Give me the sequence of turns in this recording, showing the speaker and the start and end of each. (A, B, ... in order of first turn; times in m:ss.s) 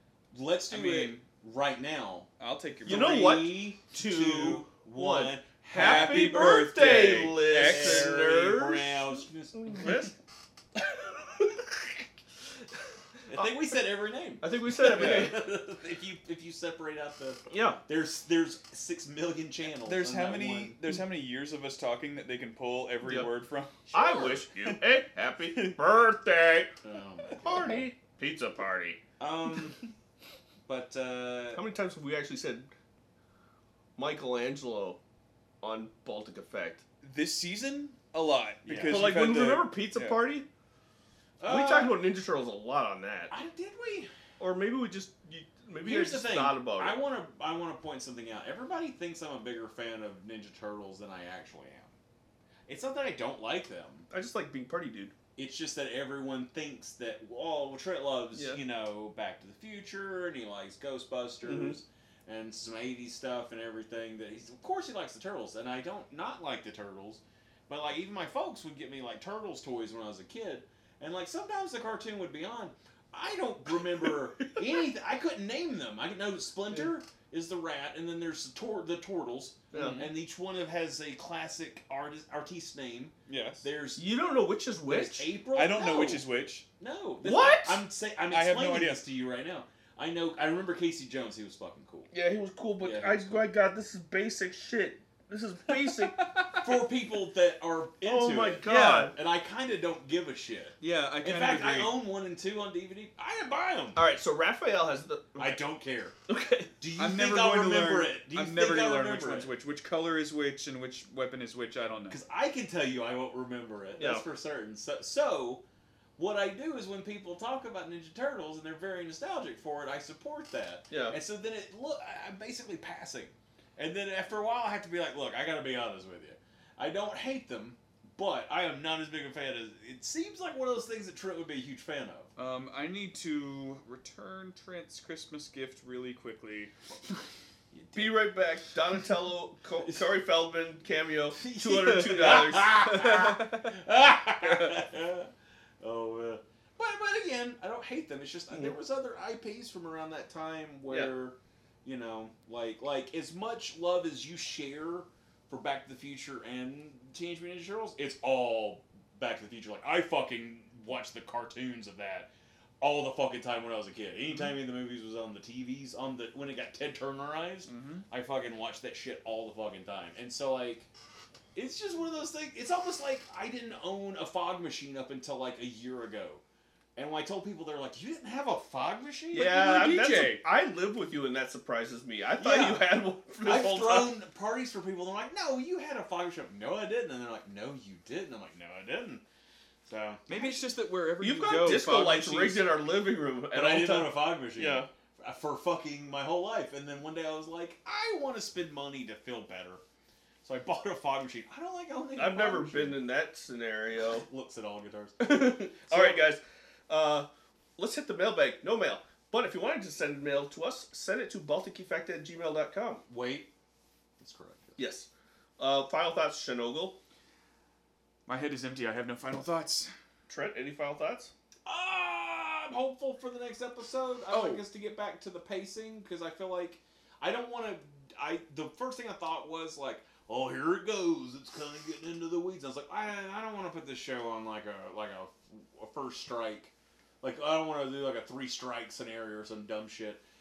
0:00.3-0:02.3 A
0:00.7-0:01.2 B
0:02.4-0:03.4 B
0:02.8-0:09.9 A
0:02.9-0:10.1 C
0:05.7-0:08.1 B
0:13.3-0:20.8 A
0:14.4-0:15.4 C
0:14.9-0:15.3 B
0:17.5-0:17.8 C
0:19.8-0:23.8 B
0:23.0-0:23.3 C
0:23.9-0:24.5 A
0:23.9-0:26.7 C
0:26.8-0:27.9 A
0:27.3-0:29.0 C
0:29.2-0:29.9 A
0:30.7-0:31.6 A
0:31.5-0:32.7 C
0:34.0-0:35.0 C
0:35.6-0:36.8 C
0:37.0-0:40.2 B
0:38.7-0:39.2 A
0:38.8-0:40.5 C
0:41.4-0:42.0 A
0:41.5-0:43.4 C
0:43.3-0:44.1 A
0:44.4-0:47.0 C
0:45.8-0:51.9 A
0:52.7-0:54.1 A
0:54.1-0:55.1 C
0:55.4-1:24.1 A
0:58.4-0:58.6 C
1:01.4-1:01.8 C
1:19.7-1:20.1 C
1:23.3-1:23.6 B
1:24.0-1:25.3 C
1:24.9-1:26.2 A
1:25.6-1:26.7 B
1:26.8-1:32.1 A
1:27.2-1:27.8 C
1:28.3-1:29.0 B
1:32.1-1:36.2 C
1:32.8-1:33.5 A
1:35.8-1:36.8 B
1:36.6-1:44.0 A
1:38.0-1:39.2 C
1:38.6-1:39.1 B
1:40.8-1:42.0 B
1:44.0-1:45.6 C
1:45.4-1:46.2 A
1:46.3-1:46.7 C
1:46.8-1:49.5 A
1:47.0-1:52.2 B
1:52.1-1:55.6 A
1:54.0-1:54.2 C
1:56.2-2:12.3 A
2:00.9-2:01.2 C
2:12.4-2:16.7 B
2:17.7-2:18.3 A
2:18.0-2:23.4 C
2:21.4-2:42.3 A
2:22.3-2:22.5 B
2:23.1-2:23.6 B
2:24.4-2:24.7 B
2:30.9-2:31.1 C
2:42.8-2:50.9 A
2:47.7-2:48.1 B
2:51.6-2:56.4 A
2:57.0-2:59.6 A
2:59.3-3:00.4 B
2:59.3-3:04.1 C
3:02.4-3:02.8 B
3:03.4-3:09.2 A
3:09.9-3:10.3 A
3:10.3-3:12.7 B
3:11.2-3:14.9 C
3:11.7-3:12.0 A
3:13.5-3:19.8 A
3:20.4-3:23.0 A
3:22.2-3:24.3 C
3:24.0-3:26.2 A
3:25.2-3:33.0 C
3:33.1-3:33.5 A
3:34.2-3:34.8 A
3:34.8-3:35.1 C
3:35.6-3:37.0 C
3:38.3-3:39.9 B
3:40.3-3:41.3 C
3:41.7-4:00.2 A
3:44.3-3:44.6 B